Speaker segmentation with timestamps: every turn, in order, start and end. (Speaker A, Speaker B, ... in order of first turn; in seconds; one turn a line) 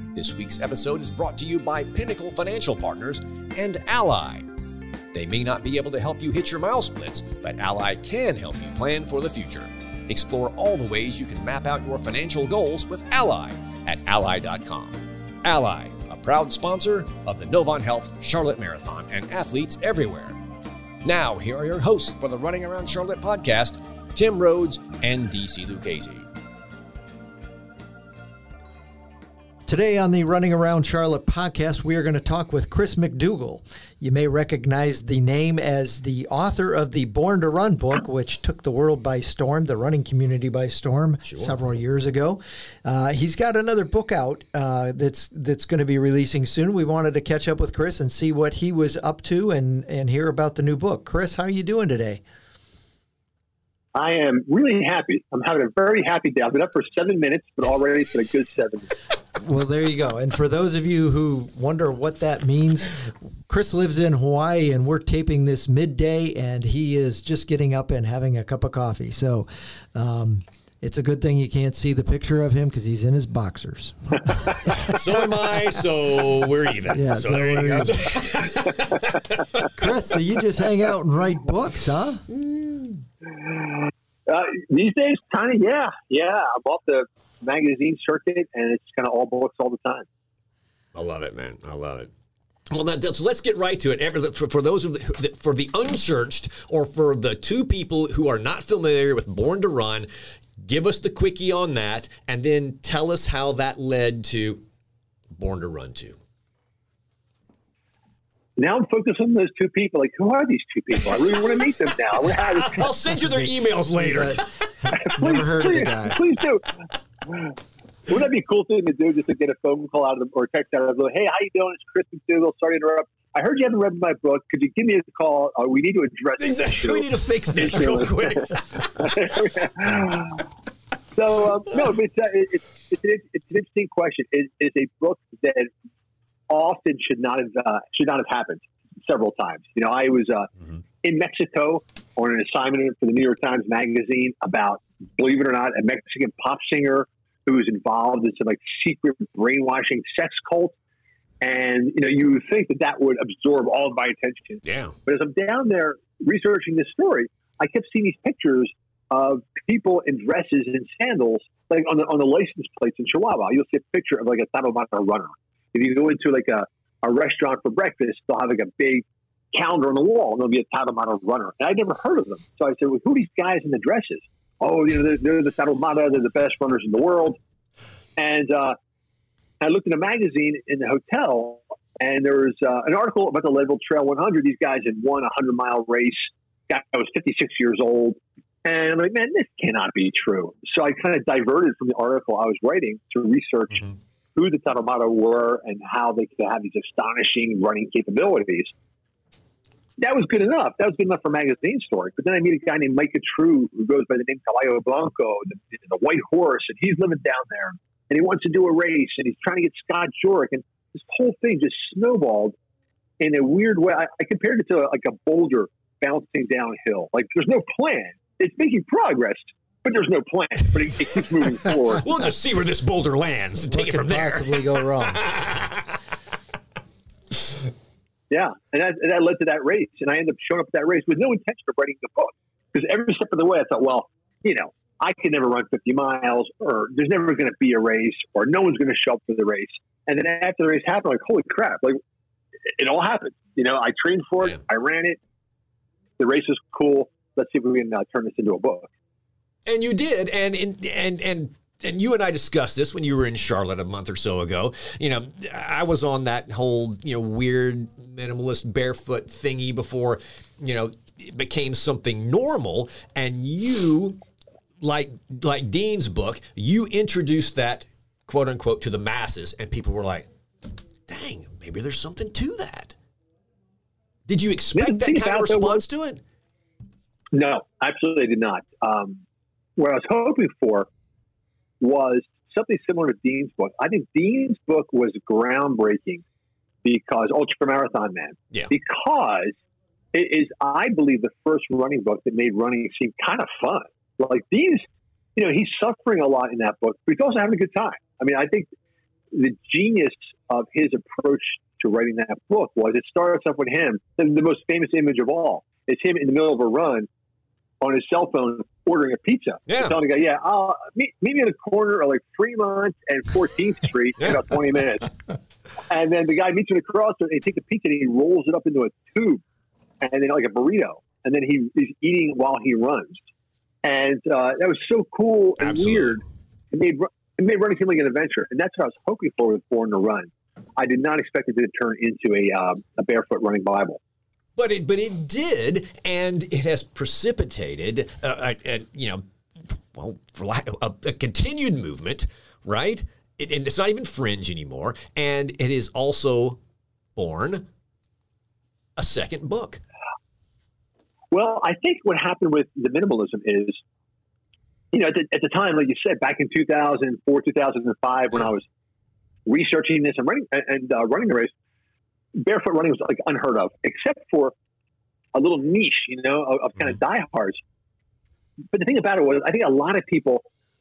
Speaker A: 0.1-4.5
Speaker A: 5.1-20.4
Speaker A: 21.1-26.3
Speaker B: 29.7-52.2
Speaker A: 41.3-41.6
Speaker C: 54.0-58.9
Speaker B: 59.4-74.8
Speaker A: 74.8-79.7
Speaker B: 76.9-78.2
Speaker C: 78.9-79.5
Speaker B: 79.7-82.3
Speaker C: 83.3-90.1
Speaker A: 91.0-92.1
Speaker A: 92.7-100.1
Speaker A: 100.6-104.6
Speaker A: 105.4-106.2
Speaker C: 108.6-112.9
Speaker A: 112.3-114.6
Speaker B: 114.0-116.2
Speaker C: 114.9-116.7
Speaker C: 117.3-117.6
Speaker C: 118.1-130.5
Speaker A: 126.4-129.2
Speaker C: 131.1-135.7
Speaker C: 136.5-150.8
Speaker C: 151.4-177.4
Speaker A: 154.7-154.9
Speaker C: 178.2-178.8
Speaker C: 179.6-198.7
Speaker C: 200.0-212.6
Speaker C: 213.2-222.0
Speaker A: 222.0-226.0
Speaker B: 223.7-225.2
Speaker C: 228.3-242.0
Speaker C: 242.7-245.2
Speaker C: 246.2-248.9
Speaker A: 249.7-264.2
Speaker A: 264.8-270.3
Speaker A: 271.1-272.9
Speaker A: 274.3-276.2
Speaker C: 274.7-275.8
Speaker C: 277.3-279.2
Speaker C: 279.8-280.9
Speaker C: 281.8-286.2
Speaker C: 286.8-289.6
Speaker C: 290.1-294.9
Speaker C: 295.4-298.7
Speaker C: 299.3-307.1
Speaker C: 307.8-315.1
Speaker A: 309.7-309.9
Speaker C: 315.9-319.4
Speaker C: 320.0-323.2
Speaker C: 323.8-334.0
Speaker A: 325.6-326.2
Speaker A: 334.6-346.6
Speaker A: 347.2-347.7
Speaker A: 349.0-349.8
Speaker C: 351.3-353.8
Speaker C: 354.9-358.6
Speaker C: 359.5-361.5
Speaker C: 362.4-364.6
Speaker C: 365.4-367.6
Speaker C: 368.7-370.5